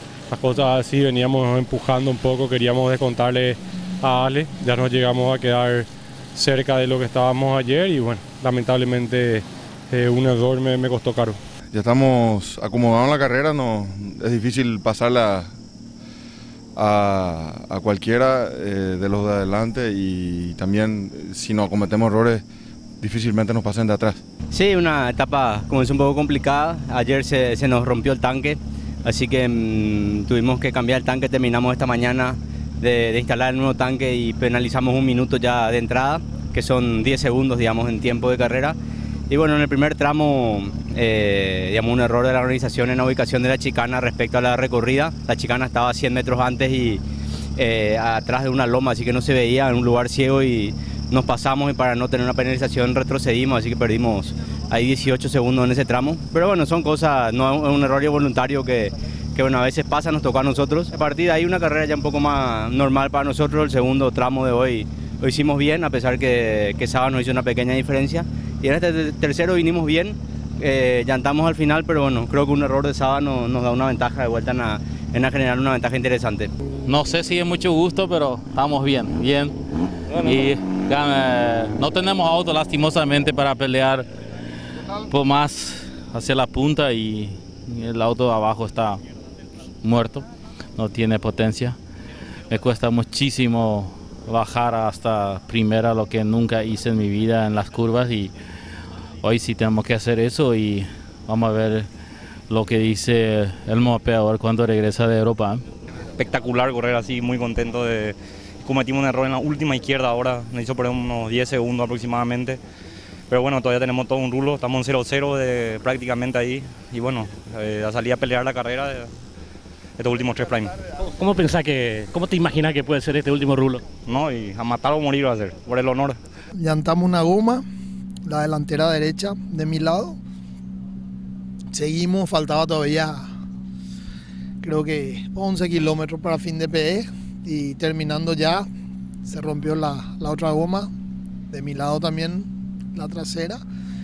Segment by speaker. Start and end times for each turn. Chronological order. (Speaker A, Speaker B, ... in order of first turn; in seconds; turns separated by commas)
Speaker A: 0.3-11.4, Speaker B: 11.7-15.5, Speaker B: 16.8-22.4, Speaker B: 23.0-24.2, Speaker C: 24.5-38.8, Speaker C: 39.3-47.0, Speaker C: 47.6-76.5, Speaker D: 76.9-79.6, Speaker D: 80.1-84.1, Speaker D: 85.0-89.0, Speaker D: 89.8-91.8, Speaker D: 92.5-98.3, Speaker D: 99.2-101.9, Speaker D: 102.5-105.6, Speaker E: 106.2-112.6, Speaker E: 113.3-119.1, Speaker E: 120.0-120.7, Speaker F: 121.0-123.8, Speaker E: 124.0-126.2, Speaker G: 126.6-127.6, Speaker G: 128.2-130.2, Speaker G: 131.7-133.3, Speaker G: 134.6-138.7, Speaker G: 139.2-140.9, Speaker G: 141.5-143.6